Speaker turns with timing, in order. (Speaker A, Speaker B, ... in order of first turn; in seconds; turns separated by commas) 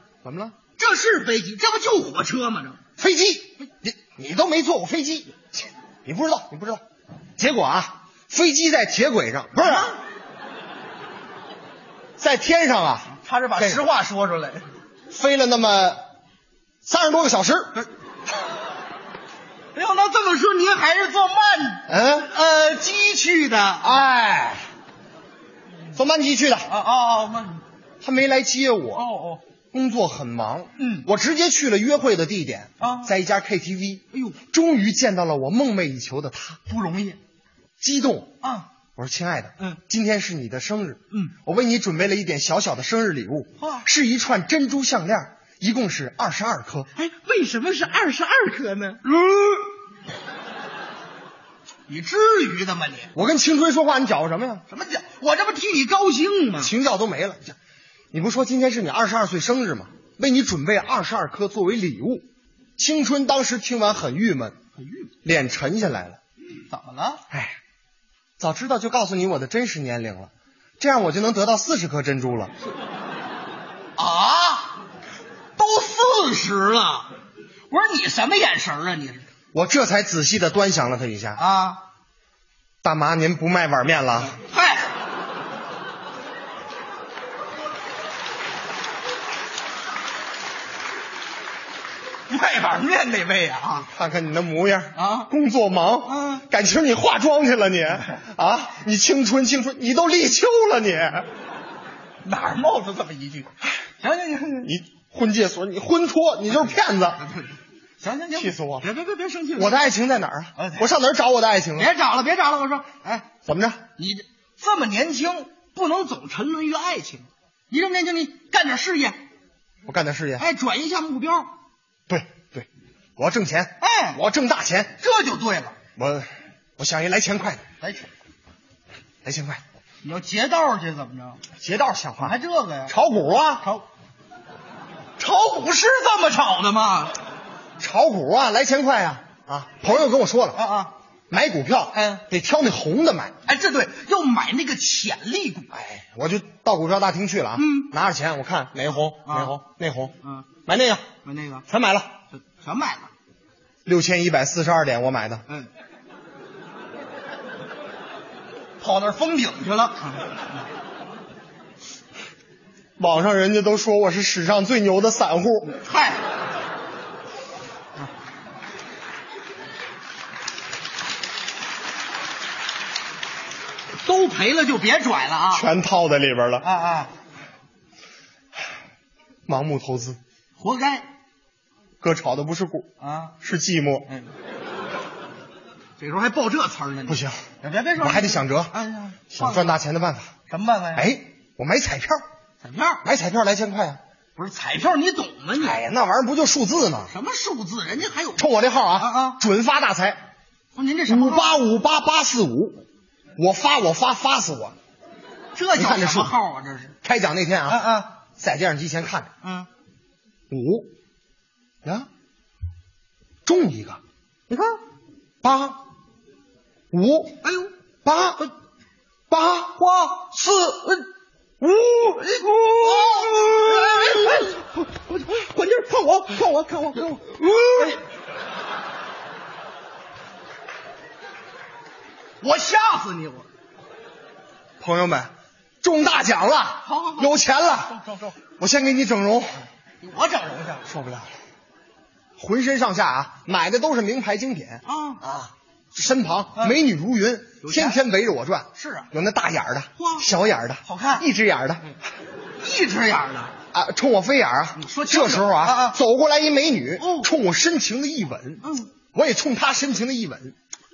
Speaker A: 0.2-0.6, Speaker B: 0.8-2.8, Speaker A: 3.0-6.8, Speaker A: 7.4-9.9, Speaker B: 9.6-10.0, Speaker A: 12.2-13.8, Speaker B: 13.1-14.7, Speaker A: 15.1-16.0, Speaker A: 16.8-17.8, Speaker B: 19.7-24.0, Speaker A: 21.9-22.3, Speaker A: 23.8-24.6, Speaker A: 25.9-26.7, Speaker B: 26.7-27.6, Speaker A: 28.0-29.1, Speaker B: 28.9-29.4, Speaker A: 29.7-37.1, Speaker B: 30.8-31.1, Speaker B: 32.8-33.1, Speaker B: 34.1-34.4, Speaker B: 36.8-37.1, Speaker A: 37.8-38.3, Speaker B: 38.4-38.7, Speaker A: 39.0-46.9, Speaker B: 43.6-43.9, Speaker B: 46.9-49.0, Speaker A: 49.2-49.6, Speaker B: 51.9-53.1, Speaker A: 53.1-54.6, Speaker B: 54.7-56.7, Speaker A: 56.6-57.5, Speaker A: 58.1-64.6, Speaker B: 64.8-65.1, Speaker A: 65.2-66.2, Speaker B: 66.7-67.2, Speaker A: 67.3-67.5, Speaker A: 68.4-72.5, Speaker B: 74.0-74.8, Speaker B: 75.6-77.1, Speaker B: 77.7-79.3, Speaker A: 79.5-81.4, Speaker B: 81.3-81.8, Speaker A: 82.8-84.3, Speaker B: 84.3-84.9, Speaker B: 92.3-93.9, Speaker A: 93.8-101.3, Speaker B: 94.9-95.3, Speaker B: 96.0-96.5, Speaker B: 102.2-104.7, Speaker A: 104.6-107.2, Speaker B: 107.2-109.9, Speaker A: 108.3-108.9, Speaker A: 109.5-111.9, Speaker B: 110.5-110.9, Speaker B: 111.7-113.3, Speaker A: 113.4-113.8, Speaker B: 114.0-119.2, Speaker A: 119.8-120.5, Speaker B: 120.4-121.5, Speaker A: 122.1-125.0, Speaker B: 123.8-124.2, Speaker B: 125.0-125.8, Speaker A: 126.0-127.6, Speaker B: 127.8-128.1, Speaker A: 129.2-129.6, Speaker B: 130.0-131.4, Speaker A: 131.6-133.7, Speaker B: 132.2-132.9, Speaker B: 133.6-133.9, Speaker B: 135.2-137.2, Speaker A: 137.8-140.6, Speaker B: 140.5-140.9, Speaker A: 141.3-143.3, Speaker B: 141.9-142.2, Speaker B: 143.4-145.7, Speaker A: 145.7-150.1, Speaker B: 147.6-147.9, Speaker B: 149.2-149.6, Speaker B: 150.2-150.5, Speaker A: 150.7-151.1, Speaker B: 151.2-151.7, Speaker A: 151.7-152.1, Speaker B: 152.3-153.1, Speaker A: 153.8-155.4, Speaker B: 158.8-160.4, Speaker A: 163.0-165.8, Speaker B: 165.7-166.2, Speaker B: 174.0-175.7, Speaker A: 175.5-176.7, Speaker B: 176.6-177.1, Speaker A: 179.5-180.2, Speaker B: 180.6-181.1, Speaker A: 182.0-182.9, Speaker B: 183.0-183.3, Speaker A: 183.4-184.1, Speaker B: 186.0-189.7, Speaker A: 187.1-187.4, Speaker A: 188.0-188.7, Speaker A: 189.3-190.3, Speaker B: 190.5-191.1, Speaker A: 190.9-192.2, Speaker B: 192.6-193.0, Speaker A: 193.0-194.0, Speaker B: 194.3-195.8, Speaker A: 195.6-197.1, Speaker B: 197.1-199.4, Speaker A: 198.3-200.2, Speaker B: 200.7-201.6, Speaker A: 201.1-202.8, Speaker A: 203.4-204.7, Speaker B: 205.5-206.9, Speaker A: 205.7-206.3, Speaker A: 207.0-207.8, Speaker B: 207.7-208.1, Speaker A: 208.4-209.3, Speaker B: 209.4-209.7, Speaker A: 210.5-210.9, Speaker A: 213.4-214.0, Speaker B: 214.5-214.8, Speaker A: 215.4-215.8, Speaker A: 216.9-217.4, Speaker B: 217.4-217.7, Speaker A: 218.0-218.4, Speaker A: 219.3-219.9, Speaker B: 219.8-221.0, Speaker A: 221.6-224.4, Speaker B: 222.2-228.0, Speaker A: 227.4-227.9, Speaker B: 232.4-233.5, Speaker A: 234.8-235.3, Speaker A: 235.8-238.0, Speaker B: 236.8-238.4, Speaker A: 238.6-239.7, Speaker B: 240.0-240.9, Speaker A: 240.8-241.3, Speaker A: 242.4-252.0, Speaker B: 244.8-245.4, Speaker B: 247.6-248.0, Speaker B: 248.8-249.1, Speaker B: 250.0-250.3, Speaker B: 250.8-251.2, Speaker B: 252.6-253.5, Speaker A: 253.7-260.5, Speaker B: 254.8-256.0, Speaker B: 257.0-257.3, Speaker B: 258.6-258.9